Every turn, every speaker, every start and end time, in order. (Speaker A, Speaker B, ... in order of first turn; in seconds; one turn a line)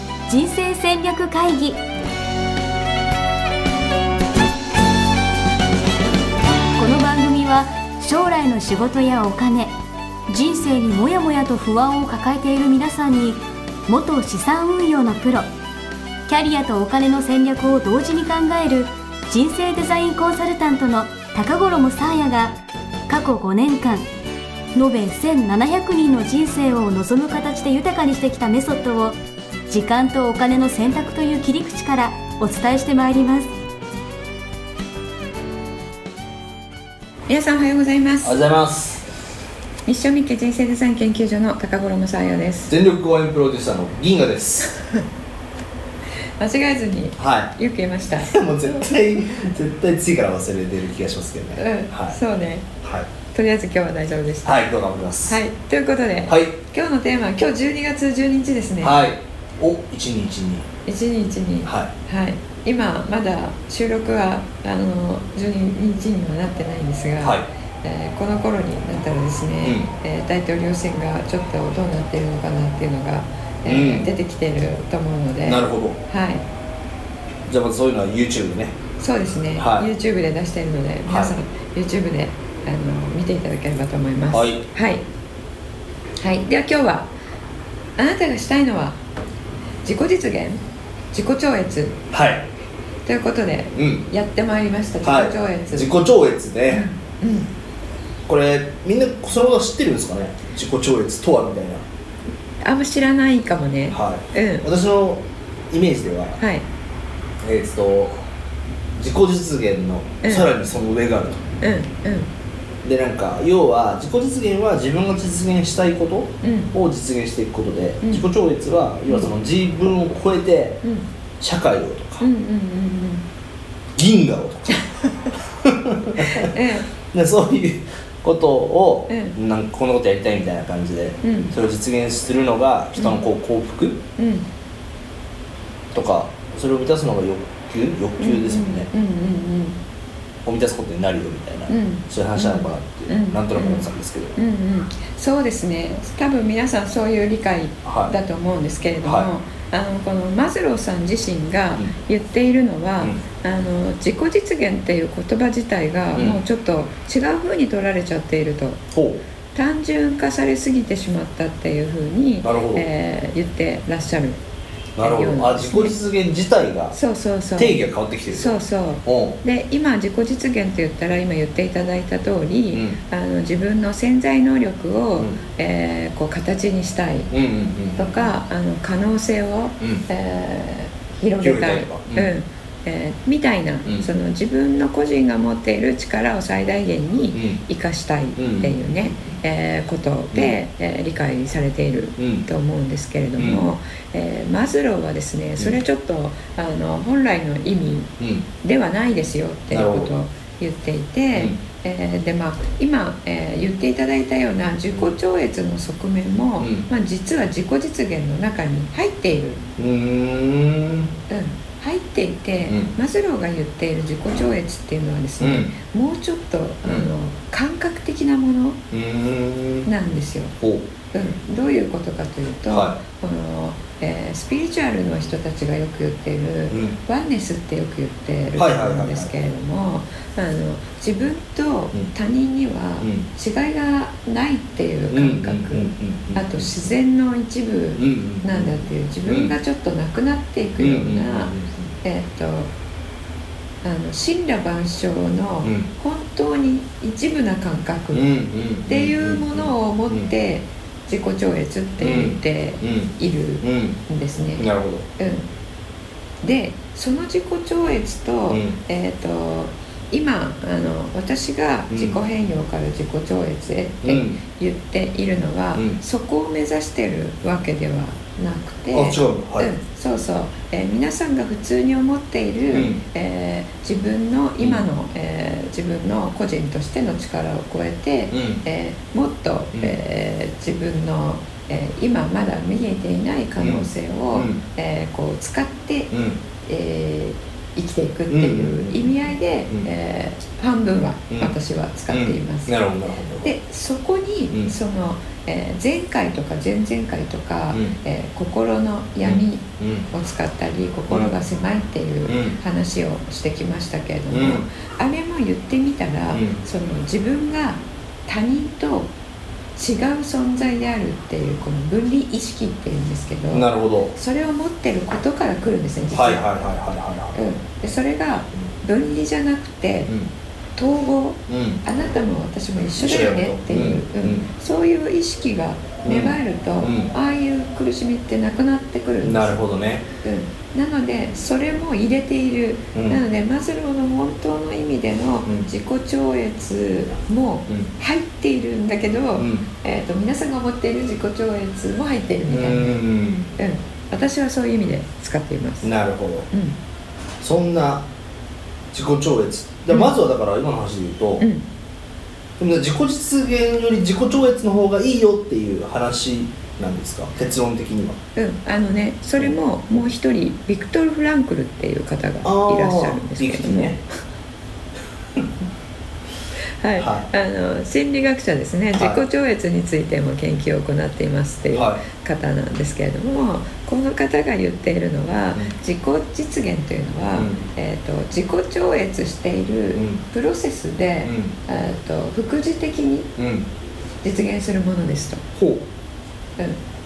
Speaker A: 0.3-1.8
Speaker A: 6.8-9.7
Speaker A: 10.3-15.5
Speaker A: 16.3-22.6
Speaker A: 23.1-24.1
Speaker A: 24.7-29.2
Speaker A: 29.7-33.5
Speaker B: 37.3-38.4
Speaker C: 38.2-39.0
Speaker B: 39.9-42.7
Speaker C: 42.7-44.8
Speaker B: 44.7-45.0
Speaker B: 46.4-48.9
Speaker C: 47.2-47.5
Speaker C: 48.2-52.2
Speaker B: 51.6-52.7
Speaker C: 52.8-53.1
Speaker B: 53.3-54.5
Speaker C: 54.4-55.4
Speaker B: 55.3-59.0
Speaker C: 56.3-56.6
Speaker C: 58.8-60.7
Speaker B: 60.9-76.4
Speaker C: 61.6-61.9
Speaker C: 67.2-67.5
Speaker C: 69.6-69.9
Speaker C: 73.6-74.1
Speaker C: 75.4-76.0
Speaker C: 77.5-78.8
Speaker B: 79.0-85.0
Speaker C: 79.6-79.9
Speaker C: 81.0-81.3
Speaker C: 84.3-84.6
Speaker B: 86.2-87.1
Speaker B: 88.0-89.0
Speaker B: 89.8-90.6
Speaker B: 91.1-92.0
Speaker C: 92.1-92.5
Speaker B: 93.0-96.0
Speaker C: 93.8-94.0
Speaker C: 95.0-96.8
Speaker B: 96.7-97.5
Speaker C: 98.3-101.9
Speaker B: 102.6-104.7
Speaker C: 103.9-106.4
Speaker B: 106.4-106.7
Speaker C: 107.4-108.2
Speaker C: 109.0-111.4
Speaker B: 110.2-110.5
Speaker B: 111.6-112.3
Speaker C: 112.8-120.8
Speaker B: 116.4-116.7
Speaker B: 118.0-118.3
Speaker C: 121.4-122.3
Speaker B: 122.2-123.2
Speaker C: 124.0-124.8
Speaker B: 124.8-125.1
Speaker C: 125.5-126.5
Speaker B: 126.3-126.9
Speaker C: 127.1-134.0
Speaker B: 129.1-129.3
Speaker B: 131.2-131.5
Speaker B: 134.2-134.4
Speaker C: 135.9-138.9
Speaker B: 138.2-139.8
Speaker C: 140.4-144.3
Speaker B: 141.7-158.8
Speaker C: 147.8-148.1
Speaker C: 149.0-149.3
Speaker C: 156.1-156.4
Speaker C: 158.9-159.2
Speaker B: 159.5-164.4
Speaker C: 162.4-162.9
Speaker C: 165.0-166.9
Speaker B: 165.0-165.9
Speaker B: 166.9-177.3
Speaker C: 167.6-169.4
Speaker C: 172.7-173.0
Speaker C: 177.3-178.3
Speaker B: 177.9-209.7
Speaker C: 179.8-180.0
Speaker C: 181.4-182.3
Speaker C: 187.3-187.6
Speaker C: 188.4-189.4
Speaker C: 192.2-192.4
Speaker C: 193.4-193.7
Speaker C: 198.2-198.4
Speaker C: 199.7-200.1
Speaker C: 201.3-201.6
Speaker C: 206.6-206.8
Speaker C: 209.8-211.1
Speaker B: 211.3-218.8
Speaker C: 212.7-212.9
Speaker C: 215.4-215.7
Speaker C: 216.8-217.1
Speaker C: 218.9-219.9
Speaker B: 219.8-220.6
Speaker C: 220.6-220.8
Speaker B: 221.1-242.7
Speaker C: 222.7-223.0
Speaker C: 226.7-226.9
Speaker C: 228.6-229.3
Speaker C: 233.0-233.2
Speaker C: 235.1-236.9
Speaker C: 238.0-239.5
Speaker C: 240.8-241.9
Speaker B: 243.8-248.3
Speaker C: 245.6-245.9
Speaker C: 248.1-250.3
Speaker B: 248.8-254.7
Speaker C: 252.0-254.0
Speaker C: 254.6-255.1
Speaker B: 255.2-255.4
Speaker B: 256.4-286.1
Speaker C: 258.5-258.8
Speaker C: 261.9-262.2
Speaker C: 264.0-264.4
Speaker C: 268.9-269.7
Speaker C: 272.7-273.0
Speaker C: 274.6-274.9
Speaker C: 278.3-278.6
Speaker C: 283.6-284.6
Speaker C: 286.1-286.4
Speaker B: 286.6-292.7
Speaker C: 288.3-289.1
Speaker C: 292.1-293.5
Speaker B: 293.4-309.1
Speaker C: 299.2-300.1
Speaker C: 302.2-302.6
Speaker C: 304.3-304.6
Speaker C: 306.3-306.6
Speaker B: 309.7-316.4
Speaker C: 313.5-314.1
Speaker C: 316.1-317.4
Speaker B: 317.3-320.1
Speaker B: 320.8-329.6
Speaker C: 321.5-321.8
Speaker C: 322.9-324.5
Speaker C: 326.0-327.1
Speaker C: 329.2-330.1
Speaker B: 330.2-343.0
Speaker C: 332.9-333.2
Speaker C: 339.4-339.6
Speaker C: 342.5-343.5
Speaker B: 343.6-345.9
Speaker C: 345.8-346.5
Speaker B: 346.5-346.8
Speaker C: 347.4-348.1
Speaker C: 348.9-351.4
Speaker B: 351.4-351.6
Speaker C: 352.6-358.2
Speaker B: 358.4-364.0
Speaker C: 362.4-364.0
Speaker B: 366.8-383.3
Speaker C: 367.0-367.3
Speaker C: 368.9-369.2
Speaker C: 371.7-372.0
Speaker C: 377.3-377.6
Speaker C: 379.9-380.2
Speaker C: 381.2-381.5
Speaker C: 383.4-383.7
Speaker B: 384.2-385.4
Speaker C: 385.6-385.9